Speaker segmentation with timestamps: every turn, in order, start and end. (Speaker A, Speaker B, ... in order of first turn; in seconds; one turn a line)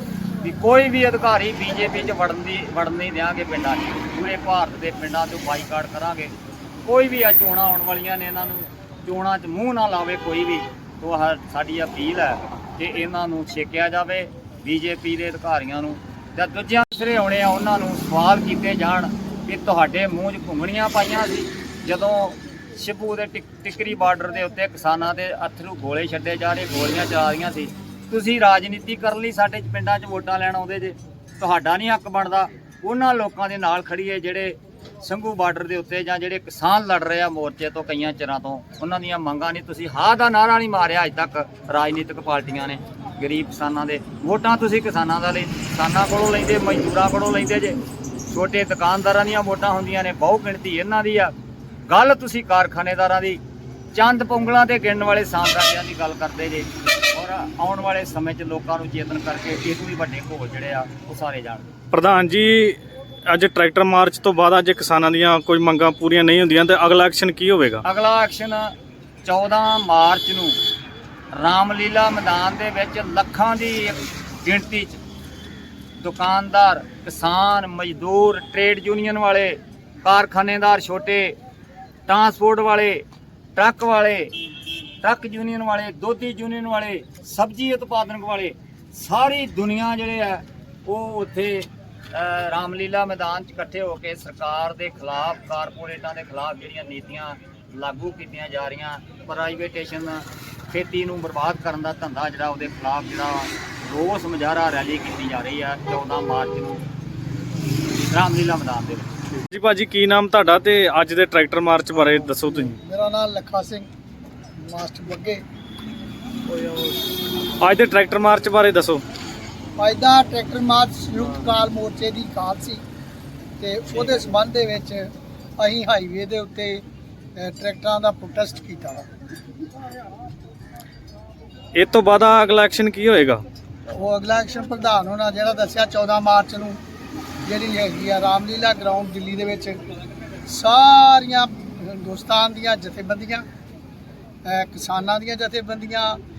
Speaker A: 0.4-51.3
Speaker A: 51.9-53.4
Speaker A: 53.9-61.7
Speaker B: 61.9-62.8
Speaker B: 63.3-67.8
Speaker A: 67.8-68.7
Speaker A: 69.2-70.6
Speaker A: 71.3-75.0
Speaker A: 76.0-81.3
Speaker A: 82.1-83.0
Speaker A: 83.5-84.3
Speaker A: 85.0-106.8
Speaker A: 107.9-109.1
Speaker B: 109.5-112.8
Speaker C: 112.4-113.9
Speaker C: 114.6-115.4
Speaker B: 116.6-116.9
Speaker B: 117.6-119.0
Speaker C: 119.8-122.8
Speaker C: 123.6-126.8
Speaker C: 127.4-129.1
Speaker B: 131.7-133.4
Speaker C: 133.9-136.8
Speaker C: 137.4-139.8
Speaker C: 140.5-143.4
Speaker C: 144.4-146.2